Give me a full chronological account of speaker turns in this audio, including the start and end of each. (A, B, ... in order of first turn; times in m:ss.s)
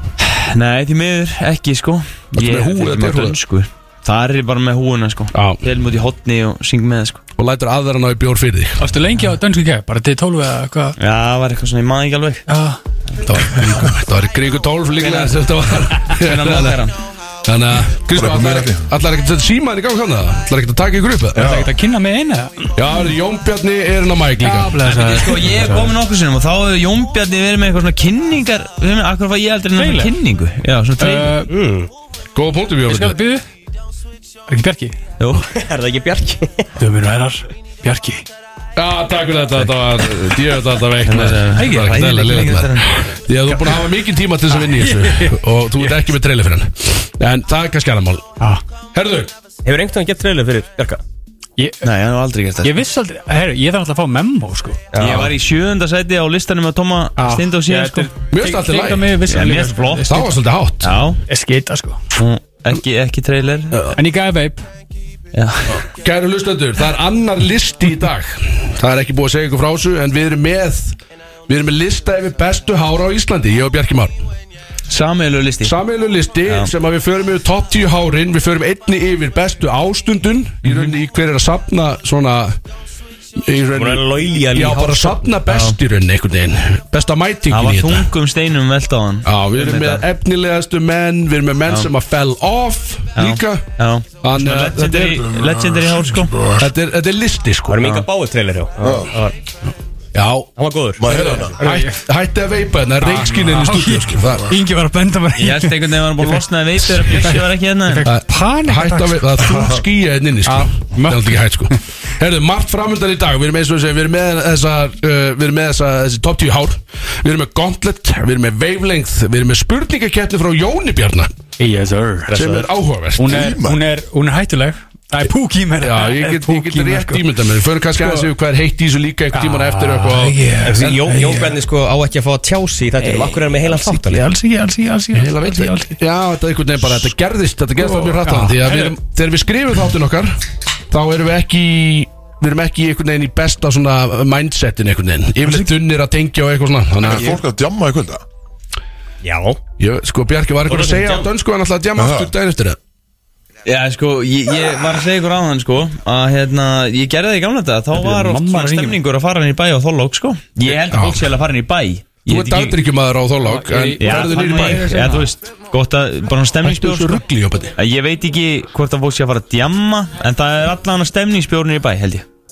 0:00.2-0:07.2 A
0:02.4-0:03.4 B
0:05.3-0:05.6 B
0:07.4-0:08.8 B
0:08.8-0:11.0 C
0:11.0-0:12.4 A
0:12.5-0:12.8 C
0:13.2-0:16.9 B
0:15.0-0:15.4 A
0:16.0-0:17.0 A
0:17.4-0:21.6 B
0:18.1-0:18.8 D
0:21.3-0:21.7 D
0:21.4-0:22.8 C
0:22.7-0:24.8 B
0:24.4-0:25.9 C
0:24.8-0:31.4 A
0:29.8-0:30.1 C
0:31.0-0:31.5 C
0:31.5-0:31.9 E
0:32.3-0:33.2 B
0:32.9-0:33.4 C
0:34.5-0:35.0 C
0:35.2-0:35.4 A
0:35.5-0:36.7 E
0:36.8-0:38.2 C
0:38.8-0:48.3 B
0:41.0-0:42.9 A
0:44.6-0:46.0 C
0:48.9-0:49.3 B
0:49.6-0:51.0 E
0:51.6-0:51.8 C
0:51.8-0:52.7 A
0:52.6-0:55.2 C
0:54.9-0:55.3 E
0:55.0-0:58.1 A
0:57.2-1:00.3 C
0:58.3-0:59.2 B
0:59.3-1:00.1 A
1:00.1-1:00.9 B
1:00.8-1:01.2 A
1:01.3-1:02.0 C
1:02.1-1:03.8 A
1:03.7-1:04.0 B
1:04.0-1:04.6 C
1:05.3-1:05.8 A
1:05.9-1:11.0 B
1:11.5-1:14.2 B
1:14.9-1:15.7 A
1:15.6-1:22.5 B
1:23.4-1:28.1 B
1:23.7-1:25.3 E
1:25.5-1:25.8 A
1:27.5-1:30.0 A
1:29.2-1:33.7 B
1:33.2-1:36.4 A
1:34.2-1:35.3 B
1:35.3-1:36.6 D
1:36.6-1:38.0 B
1:37.7-1:39.4 E
1:38.8-1:39.1 D
1:40.1-1:44.6 B
1:40.6-1:41.6 E
1:41.6-1:42.0 C
1:43.0-1:46.4 C
1:45.4-1:48.1 A
1:47.0-1:49.8 C
1:48.0-2:01.3 B
1:50.4-1:51.7 C
2:01.6-2:02.3 C
2:02.3-2:02.7 E
2:02.3-2:03.4 B
2:03.2-2:07.3 C
2:03.3-2:03.8 D
2:05.8-2:11.0 B
2:08.0-2:08.3 C
2:09.3-2:11.6 C
2:10.6-2:14.2 E
2:13.0-2:15.9 C
2:15.1-2:20.3 B
2:17.8-2:19.0 C
2:20.9-2:27.3 B
2:27.0-2:28.2 D
2:29.2-2:29.6 E
2:29.8-2:32.8 B
2:30.7-2:31.3 E
2:32.0-2:32.3 D
2:33.6-2:42.8 A
2:37.9-2:39.0 C
2:40.6-2:41.3 B
2:42.3-2:45.0 B
2:43.4-2:45.3 C
2:44.0-2:47.2 A
2:46.6-2:47.7 B
2:47.8-2:52.2 A